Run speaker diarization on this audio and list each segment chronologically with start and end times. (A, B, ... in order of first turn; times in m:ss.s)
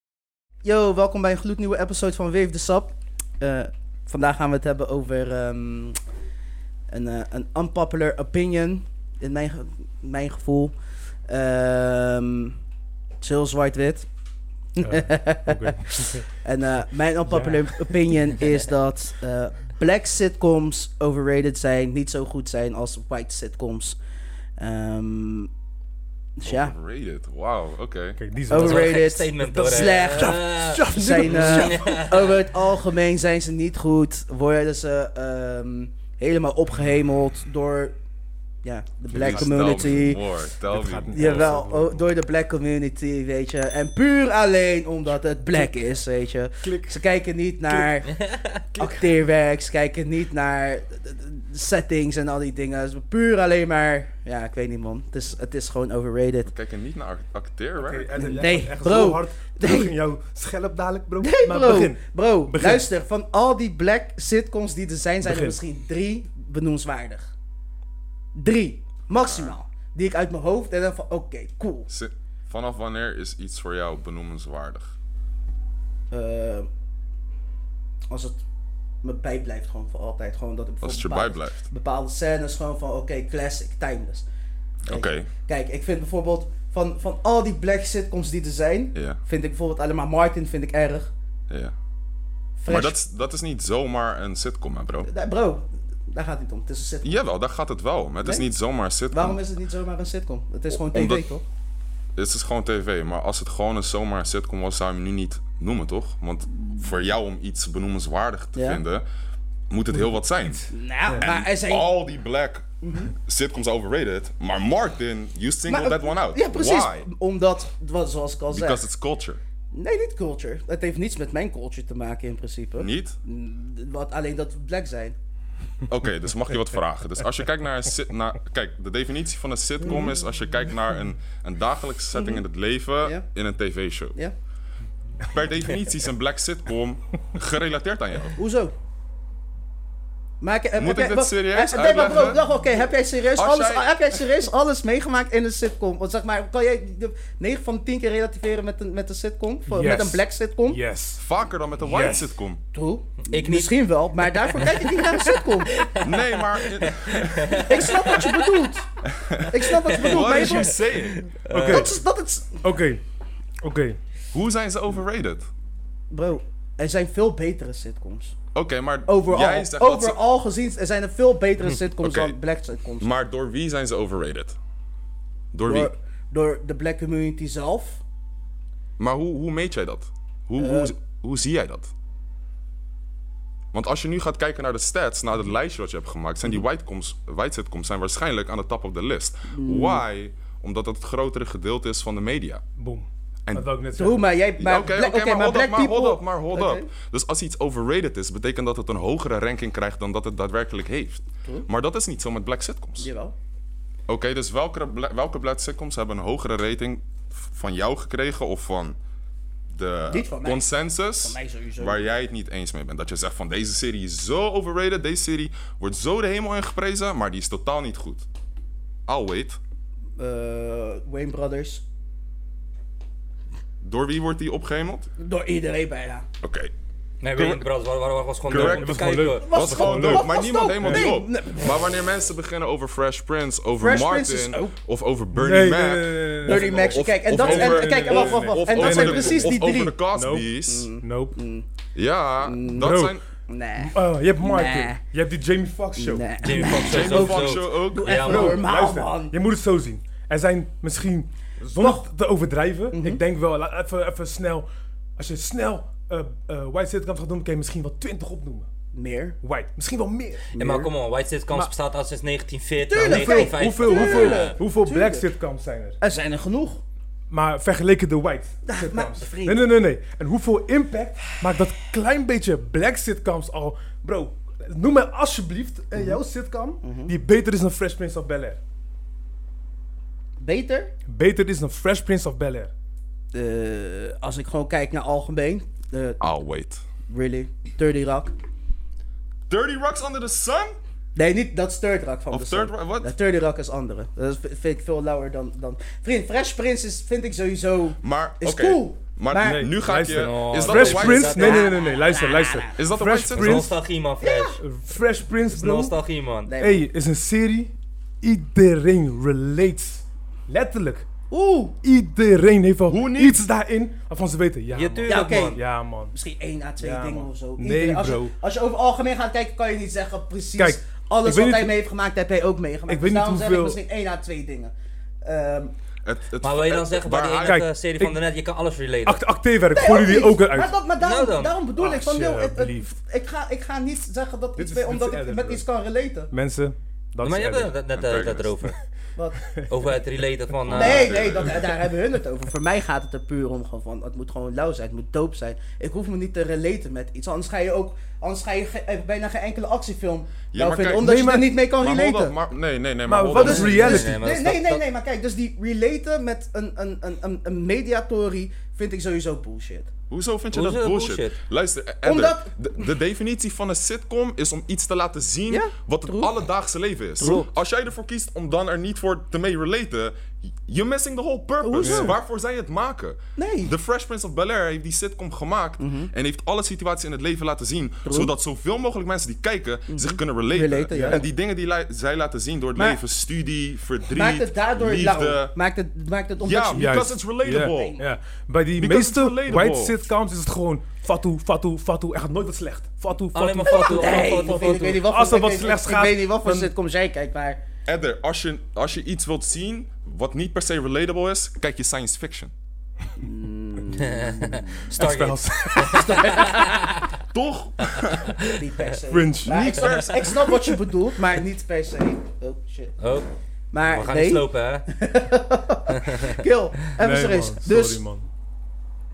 0:00.6-0:06.0 A
0:06.9-0:10.7 A
0:11.3-0:12.6 A
0:13.2-0:14.1 A
0:14.8-0:24.0 A
0:14.8-0:16.3 B
0:17.3-0:18.1 B
0:24.6-0:25.5 A
0:26.4-0:26.8 A
0:26.4-0:28.2 C
0:28.2-0:32.0 B
0:28.5-0:38.0 A
0:28.5-0:32.4 D
0:38.6-0:40.2 A
0:39.1-0:41.5 C
0:39.2-0:40.2 B
0:40.7-0:42.0 B
0:41.1-0:48.2 A
0:46.6-0:46.9 B
0:48.1-0:48.6 D
0:48.8-0:56.5 A
0:56.5-0:58.1 C
0:57.8-1:02.9 B
0:58.2-1:00.0 A
1:01.2-1:07.3 A
1:05.2-1:05.6 B
1:08.3-1:11.9 A
1:09.2-1:09.5 C
1:11.9-1:14.9 C
1:16.1-1:16.7 A
1:18.1-1:18.4 A
1:19.0-1:24.2 A
1:20.8-1:21.7 C
1:24.9-1:25.3 C
1:24.9-1:31.1 A
1:28.9-1:29.2 C
1:32.6-1:33.0 A
1:32.7-1:35.1 C
1:35.0-1:37.2 A
1:37.0-1:39.4 C
1:39.1-1:41.4 A
1:40.7-1:41.3 C
1:42.2-1:49.0 C
1:48.5-1:48.8 A
1:49.7-1:57.1 C
1:50.7-1:52.0 A
1:52.8-1:53.1 A
1:55.7-1:58.8 A
1:58.5-1:59.4 C
1:59.7-2:05.1 A
2:02.8-2:03.2 C
2:05.9-2:14.2 C
2:12.1-2:12.4 A
2:15.2-2:18.4 C
2:18.4-2:18.7 A
2:20.4-2:30.8 A
2:20.8-2:22.4 C
2:23.3-2:24.2 C
2:29.7-2:31.2 B
2:31.2-2:32.6 C
2:31.8-2:32.3 B
2:32.7-2:35.7 A
2:33.3-2:35.1 D
2:35.7-2:36.1 D
2:36.0-2:38.1 C
2:36.8-2:38.3 D
2:37.6-2:38.9 A
2:39.2-2:41.2 C
2:39.5-2:40.8 A
2:39.8-2:41.9 D
2:41.5-2:41.9 B
2:41.7-2:42.7 A
2:42.6-2:43.0 B
2:43.6-2:44.0 B
2:44.3-2:45.5 C
2:46.1-2:48.3 A
2:48.5-2:50.2 C
2:49.1-2:53.1 A
2:52.0-2:52.4 C
2:53.0-2:54.6 C
2:55.5-2:55.9 C
2:55.6-2:58.0 A
2:59.0-3:01.9 C
3:00.6-3:00.9 A
3:03.7-3:12.6 C
3:09.5-3:10.0 A
3:12.8-3:14.2 B
3:14.0-3:16.9 A
3:14.6-3:23.1 C
3:23.0-3:23.3 A
3:24.1-3:29.0 C
3:29.7-3:38.2 C
3:30.1-3:32.1 A
3:39.1-3:39.6 C
3:40.2-3:41.8 A
3:43.8-3:45.1 C
3:45.2-3:46.2 A
3:46.4-3:46.7 C
3:47.2-3:49.5 D
3:47.3-3:47.7 C
3:48.4-4:00.9 C
3:48.5-3:51.1 B
3:49.4-3:51.8 A
3:53.8-3:54.8 A
3:55.3-3:59.6 B
3:56.4-4:00.0 A
4:00.1-4:00.5 B
4:00.7-4:01.7 A
4:01.0-4:01.4 B
4:01.9-4:03.2 C
4:02.4-4:03.0 A
4:02.8-4:03.2 B
4:03.5-4:05.0 A
4:03.8-4:06.8 B
4:06.0-4:09.3 A
4:06.4-4:08.6 D
4:06.8-4:08.2 C
4:08.2-4:14.7 B
4:11.7-4:12.0 A
4:12.9-4:13.2 A
4:15.2-4:18.7 B
4:18.9-4:19.4 A
4:19.4-4:20.5 B
4:20.5-4:24.6 D
4:20.6-4:20.9 A
4:22.9-4:25.3 A
4:23.0-4:26.0 B
4:26.0-4:26.8 A
4:27.3-4:38.6 B
4:28.6-4:29.6 A
4:35.9-4:36.2 A
4:36.8-4:37.2 A
4:40.4-4:40.9 A
4:41.1-4:42.7 B
4:43.3-4:46.2 A
4:46.2-4:46.8 C
4:47.1-4:48.3 A
4:49.5-4:50.8 C
4:51.2-4:59.7 A
4:52.3-4:53.1 C
4:58.0-5:01.7 C
4:59.4-5:03.7 B
5:00.0-5:01.8 D
5:01.4-5:02.8 A
5:02.8-5:03.7 C
5:03.3-5:04.6 D
5:04.2-5:04.6 A
5:04.6-5:06.0 B
5:05.5-5:06.5 D
5:06.5-5:06.9 A
5:06.6-5:11.0 B
5:11.3-5:11.8 A
5:11.8-5:16.1 B
5:12.9-5:13.4 C
5:14.7-5:15.6 D
5:15.1-5:15.6 A
5:16.1-5:24.7 A
5:16.8-5:18.3 B
5:20.6-5:21.7 B
5:22.9-5:23.8 B
5:25.2-5:25.7 A
5:26.0-5:27.6 C
5:26.4-5:29.2 D
5:27.4-5:28.2 B
5:29.0-5:30.7 B
5:29.7-5:36.3 A
5:31.0-5:31.6 D
5:31.8-5:33.0 B
5:34.6-5:35.6 B
5:36.3-5:37.8 B
5:37.2-5:38.8 D
5:38.0-5:38.5 C
5:39.2-5:39.4 A
5:39.7-5:41.2 D
5:40.7-5:41.7 C
5:40.7-5:52.4 A
5:50.5-5:51.1 C
5:51.0-5:51.5 B
5:51.7-5:54.0 C
5:53.1-5:54.1 B
5:53.3-5:59.9 A
5:53.6-5:54.8 D
6:00.1-6:25.5 C
6:00.5-6:01.4 D
6:02.0-6:02.5 A
6:05.5-6:06.3 A
6:07.2-6:07.5 A
6:11.6-6:12.2 A
6:11.8-6:12.1 B
6:13.4-6:13.7 A
6:15.8-6:16.1 A
6:18.0-6:18.3 A
6:19.9-6:21.2 A
6:21.0-6:21.2 B
6:22.8-6:23.0 A
6:24.1-6:26.9 A
6:26.4-6:28.0 C
6:26.8-6:36.7 B
6:27.6-6:28.1 A
6:28.8-6:30.0 C
6:33.3-6:35.0 D
6:33.7-6:37.6 A
6:37.9-6:42.5 C
6:43.2-6:44.9 A
6:44.0-6:47.1 D
6:44.9-6:46.4 B
6:45.8-6:47.0 A
6:47.3-6:48.3 C
6:48.6-6:53.0 A
6:49.1-6:49.6 B
6:49.4-6:50.5 C
6:53.0-6:53.3 D
6:53.7-6:58.0 A
6:53.8-6:54.9 D
6:57.0-6:58.3 B